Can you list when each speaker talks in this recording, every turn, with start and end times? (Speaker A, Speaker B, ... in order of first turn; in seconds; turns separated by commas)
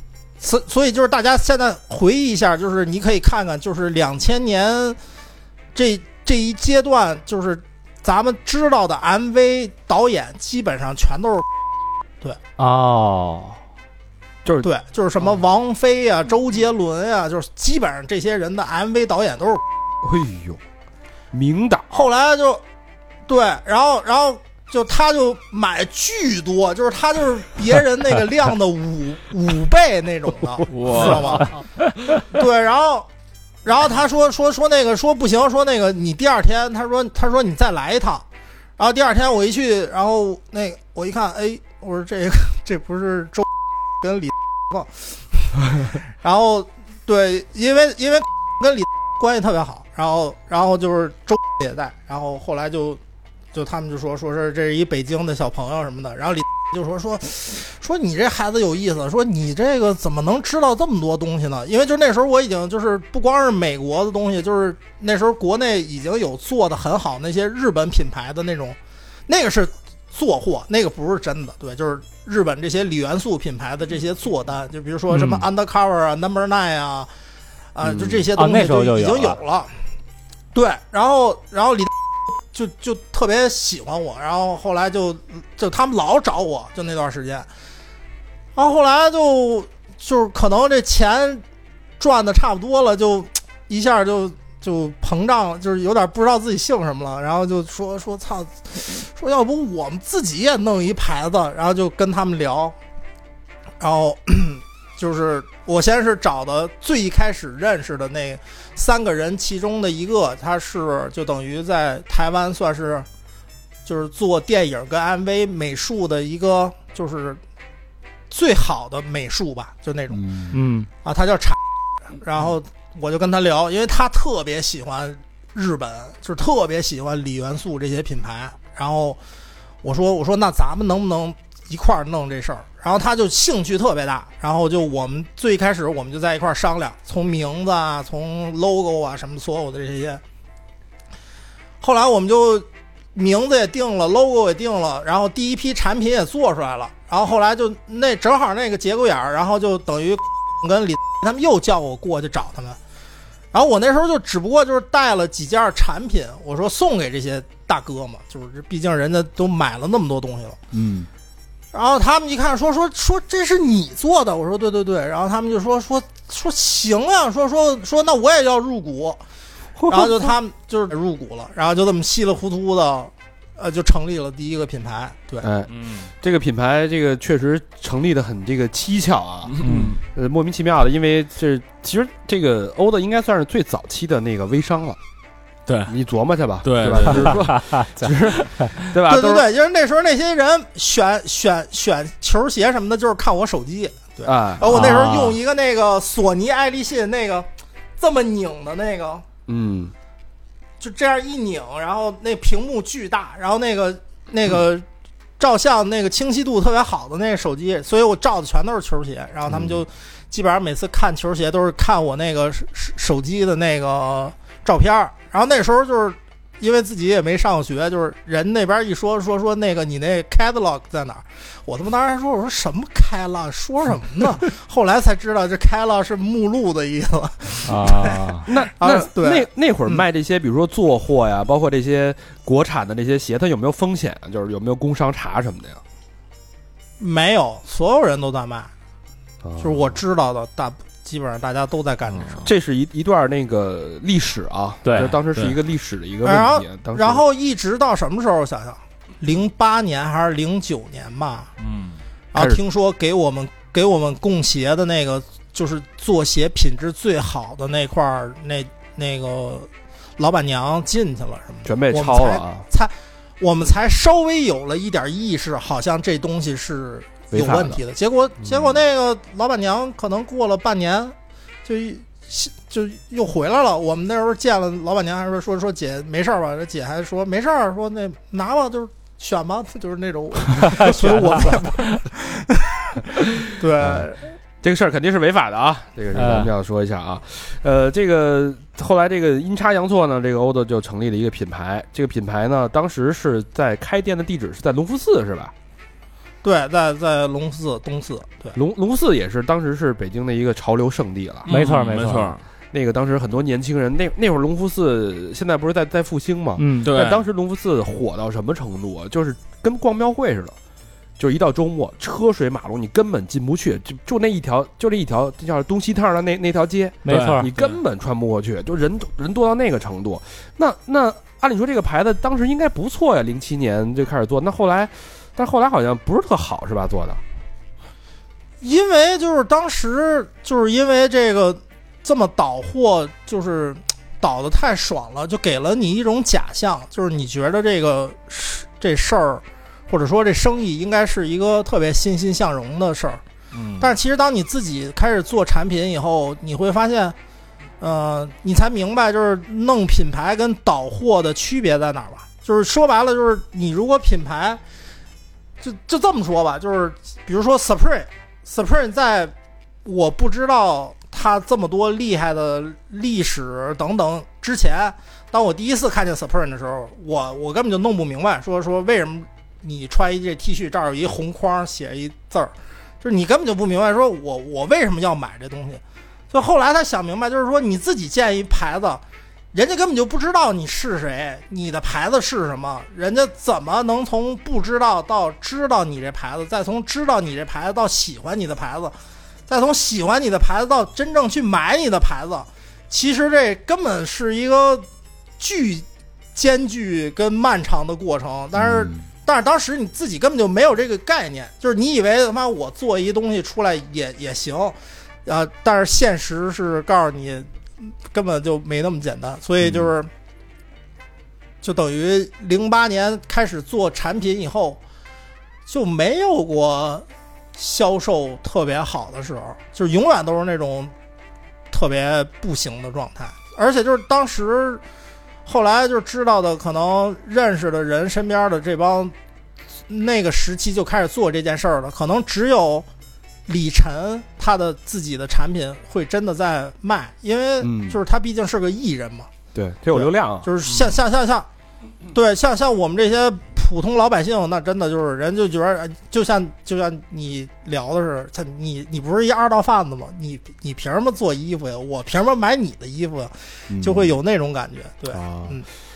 Speaker A: 0.4-5.0, Speaker A: 5.7-11.4, Speaker B: 12.6-13.6, Speaker A: 14.6-19.6, Speaker C: 20.0-20.6, Speaker C: 21.3-22.1, Speaker A: 21.9-22.6, Speaker A: 23.3-31.5, Speaker D: 30.7-31.4, Speaker A: 32.3-33.1, Speaker A: 33.6-38.2, Speaker A: 38.8-43.5, Speaker A: 44.0-53.0, Speaker A: 53.5-77.1, Speaker B: 75.1-75.4, Speaker A: 77.7-79.7, Speaker C: 77.8-78.3, Speaker B: 78.3-79.4, Speaker A: 80.5-81.9, Speaker A: 82.5-87.5, Speaker A: 88.5-91.4, Speaker A: 92.0-102.8, Speaker A: 103.8-113.1, Speaker A: 113.8-117.4, Speaker A: 118.3-120.2, Speaker C: 120.2-120.6, Speaker B: 120.5-120.9, Speaker A: 121.0-121.6, Speaker A: 122.1-129.2, Speaker A: 129.8-140.2, Speaker A: 141.8-152.8, Speaker A: 153.5-160.6, Speaker C: 160.7-161.1, Speaker A: 161.7-169.2, Speaker C: 169.8-170.3, Speaker A: 169.9-175.5, Speaker C: 175.4-185.0, Speaker D: 175.7-176.1, Speaker D: 179.5-180.0, Speaker D: 185.7-185.9, Speaker C: 185.9-189.4, Speaker D: 186.6-187.5, Speaker B: 187.5-188.1, Speaker A: 189.1-199.2, Speaker C: 194.2-195.3, Speaker B: 194.7-195.2, Speaker C: 199.5-199.9, Speaker A: 200.8-204.8, Speaker A: 205.4-230.0, Speaker C: 209.5-209.8, Speaker B: 227.7-228.5, Speaker C: 228.4-235.8, Speaker A: 237.0-238.7, Speaker C: 239.4-240.0, Speaker A: 239.6-242.5, Speaker C: 242.4-247.2, Speaker B: 244.8-245.2, Speaker D: 245.0-245.6, Speaker A: 246.2-251.5, Speaker D: 251.6-252.0, Speaker A: 252.3-284.3, Speaker C: 252.3-252.6, Speaker C: 261.6-262.6, Speaker C: 267.3-267.8, Speaker C: 268.4-268.8, Speaker B: 280.6-281.7, Speaker C: 284.6-295.5, Speaker B: 286.1-286.5, Speaker A: 296.4-298.6, Speaker C: 298.5-301.5, Speaker D: 301.4-302.4, Speaker B: 301.5-302.4, Speaker C: 302.7-310.6, Speaker B: 306.6-306.9, Speaker D: 306.8-307.2, Speaker C: 311.2-327.2, Speaker B: 317.0-317.5, Speaker D: 317.1-317.8, Speaker A: 328.6-343.2, Speaker D: 343.5-343.9, Speaker A: 343.8-347.1, Speaker A: 347.8-354.6, Speaker A: 355.6-359.3, Speaker A: 359.8-379.0, Speaker A: 379.5-388.9, Speaker A: 389.5-394.9, Speaker A: 395.4-410.1, Speaker C: 398.5-399.1, Speaker C: 409.6-409.9, Speaker A: 411.6-414.8, Speaker A: 415.7-420.9, Speaker A: 421.7-424.8, Speaker A: 425.4-429.1, Speaker A: 429.9-432.9, Speaker A: 433.5-439.3, Speaker C: 437.6-438.0, Speaker C: 439.5-440.5, Speaker A: 439.9-441.5, Speaker A: 442.1-455.6, Speaker C: 453.7-454.1, Speaker C: 455.1-455.6